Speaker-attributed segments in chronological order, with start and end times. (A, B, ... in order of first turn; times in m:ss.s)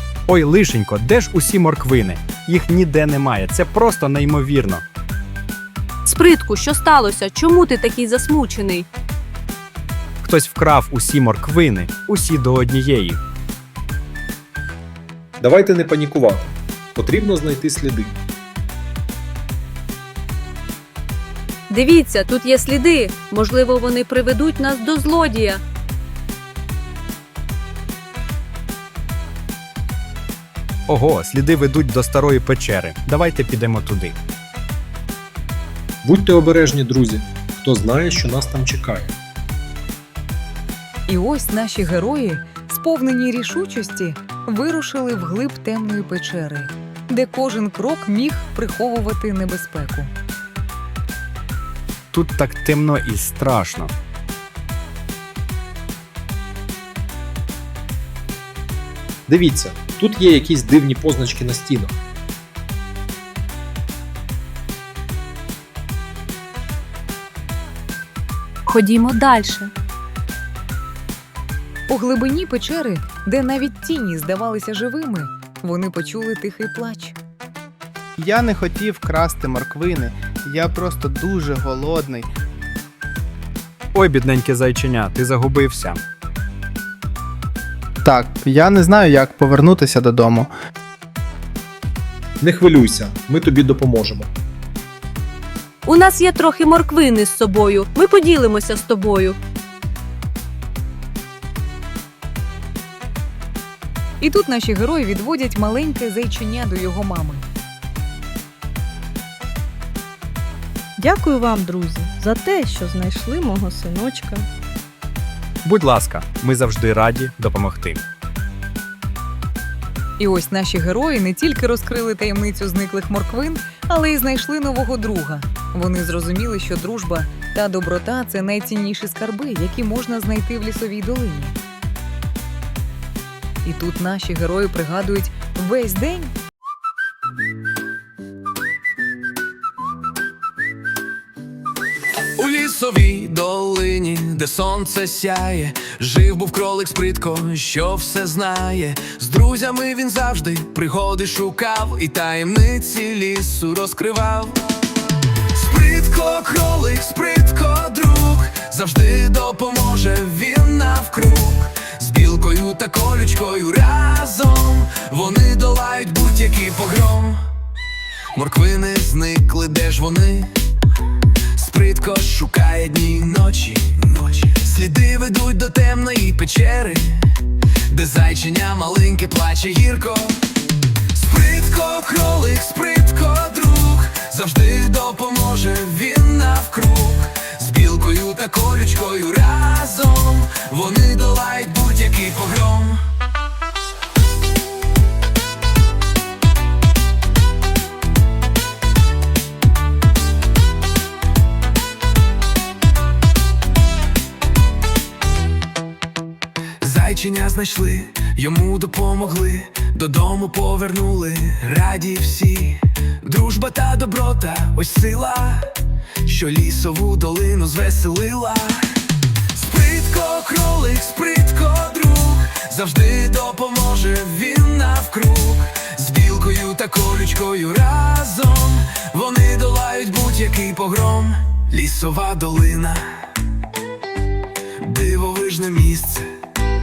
0:00.3-0:04.8 A
0:06.0-0:08.9 B
0:10.2-0:13.2 A
0:15.4-0:18.1 C
0:21.7-0:25.6 B
0:30.9-0:34.2 A
0:36.0-0:39.1 C
0:41.1-0:50.1 D
0:52.1-0:53.9 A
0:59.3-1:01.9 C
1:08.7-1:09.7 B
1:11.9-1:17.2 D
1:18.2-1:22.3 E
1:23.9-1:26.0 A
1:28.0-1:30.5 E
1:32.4-1:34.3 C
1:35.8-1:39.4 B
1:44.2-1:47.4 D
1:51.0-1:54.5 F
1:55.6-1:58.0 A
2:00.2-2:11.6 D
2:13.6-2:16.3 D
2:22.4-2:34.6 G
2:35.5-2:47.4 G
2:48.3-2:50.5 G
2:51.5-3:00.5 G
3:01.1-3:13.0 G
3:26.8-3:53.0 G
3:54.8-3:56.3 G